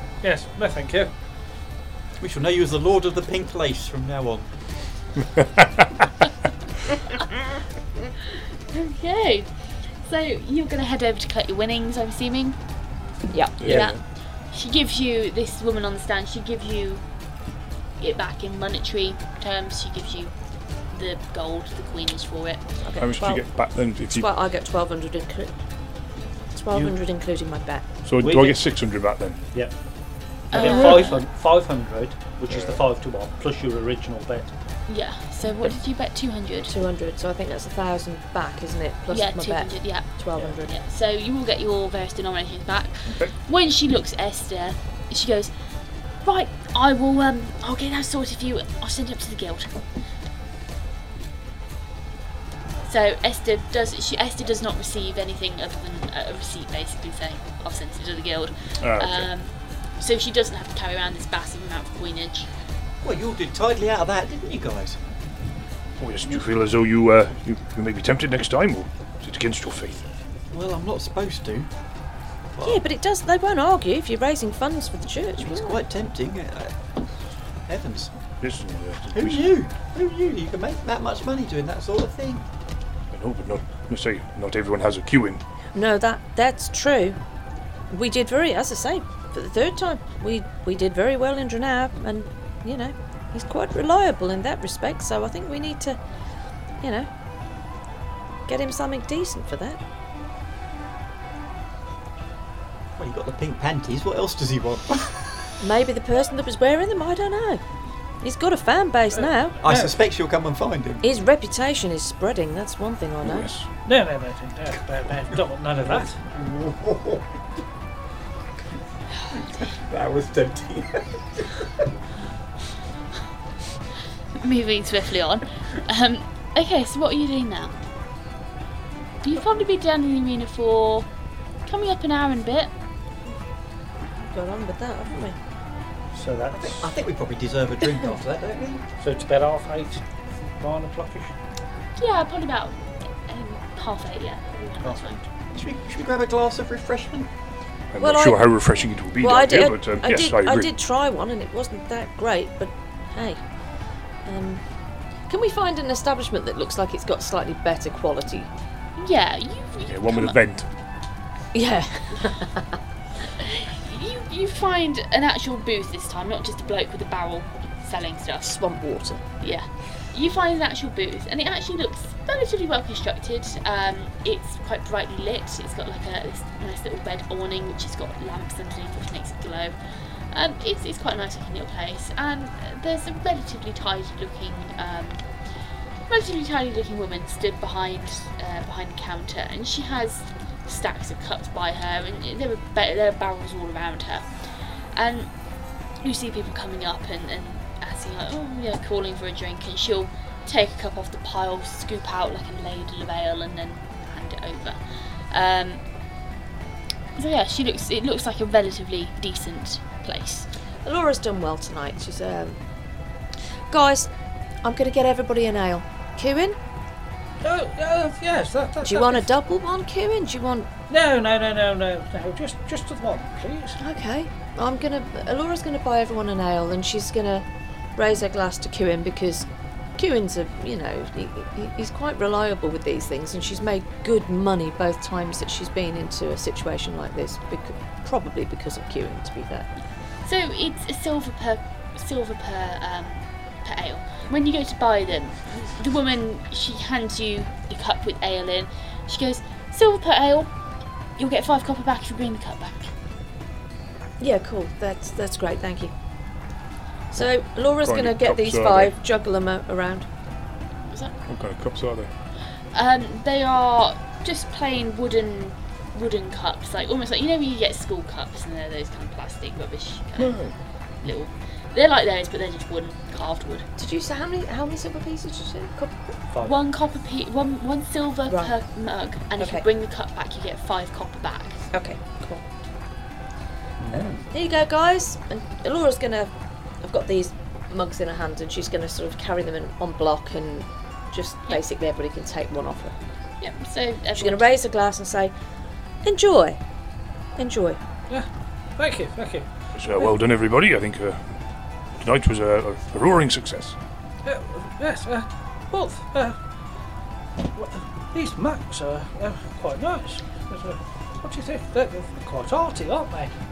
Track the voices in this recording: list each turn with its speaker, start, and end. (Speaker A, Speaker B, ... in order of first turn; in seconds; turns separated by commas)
Speaker A: 0.2-1.1, Speaker B: 2.2-4.5, Speaker C: 5.4-5.6, Speaker D: 8.7-12.6, Speaker E: 13.3-13.8, Speaker C: 13.6-14.0, Speaker D: 13.6-14.0, Speaker D: 14.5-17.0, Speaker D: 18.0-20.3, Speaker D: 20.9-22.6, Speaker E: 22.8-23.4, Speaker C: 23.0-24.3, Speaker E: 24.1-25.5, Speaker E: 26.5-27.9, Speaker C: 28.0-29.4, Speaker A: 28.2-28.6, Speaker D: 30.5-31.2, Speaker A: 30.5-34.5, Speaker E: 30.5-31.0, Speaker C: 32.5-32.8, Speaker D: 34.9-36.7, Speaker E: 36.7-40.7, Speaker D: 39.1-45.5, Speaker D: 46.2-49.8, Speaker D: 52.8-62.5, Speaker C: 58.8-59.3, Speaker B: 63.0-65.2, Speaker C: 66.0-70.0, Speaker B: 70.5-71.7, Speaker B: 72.5-72.8, Speaker E: 72.6-75.8, Speaker B: 75.4-76.8, Speaker B: 77.7-78.1, Speaker C: 78.4-79.5, Speaker B: 79.1-82.4, Speaker C: 83.1-85.4, Speaker E: 85.7-87.2, Speaker E: 87.9-96.0, Speaker E: 96.8-97.1, Speaker E: 98.5-99.8, Speaker B: 103.0-105.4, Speaker E: 105.6-107.6, Speaker E: 108.2-109.6, Speaker A: 109.1-110.0, Speaker B: 109.6-111.0, Speaker E: 111.0-113.5, Speaker C: 113.2-113.7, Speaker A: 113.8-116.2, Speaker B: 116.2-117.2, Speaker B: 119.3-121.8, Speaker D: 124.3-127.8, Speaker D: 129.2-131.1, Speaker D: 131.6-132.7, Speaker E: 134.2-135.4, Speaker A: 136.1-136.9, Speaker B: 136.5-138.8, Speaker A: 139.0-140.0, Speaker A: 140.6-141.3, Speaker D: 142.0-145.2, Speaker A: 144.8-145.2, Speaker B: 145.5-147.3, Speaker C: 147.9-150.7, Speaker E: 148.0-148.4, Speaker E: 149.2-153.4, Speaker E: 154.2-154.6, Speaker E: 155.3-158.5, Speaker D: 159.0-160.4, Speaker C: 159.8-160.7, Speaker E: 161.5-162.7, Speaker D: 163.4-168.6, Speaker E: 168.4-169.2, Speaker D: 169.4-179.7, Speaker D: 180.3-185.2, Speaker D: 186.1-194.2, Speaker D: 194.9-195.3, Speaker D: 196.0-204.8, Speaker D: 205.3-205.8, Speaker D: 207.2-210.5, Speaker E: 210.8-212.6, Speaker E: 213.7-214.1, Speaker E: 214.6-216.6, Speaker A: 217.4-219.3, Speaker E: 218.8-220.7, Speaker A: 220.9-223.8, Speaker E: 223.8-239.7, Speaker D: 240.2-250.5, Speaker D: 251.2-252.9, Speaker E: 254.2-255.9, Speaker E: 257.1-260.1, Speaker C: 257.8-258.9, Speaker D: 260.9-261.1, Speaker C: 261.2-262.1, Speaker D: 262.7-270.4, Speaker C: 270.2-270.5, Speaker D: 271.0-273.7, Speaker E: 273.8-276.1, Speaker D: 276.4-281.6, Speaker E: 279.4-279.6, Speaker E: 281.7-282.4, Speaker A: 283.8-284.2, Speaker E: 284.3-292.9, Speaker D: 293.4-294.5, Speaker E: 294.1-295.3, Speaker E: 296.0-296.6, Speaker E: 297.4-297.8, Speaker A: 298.1-299.5, Speaker C: 299.7-301.2, Speaker C: 302.0-303.8, Speaker A: 304.2-306.4, Speaker A: 307.5-313.4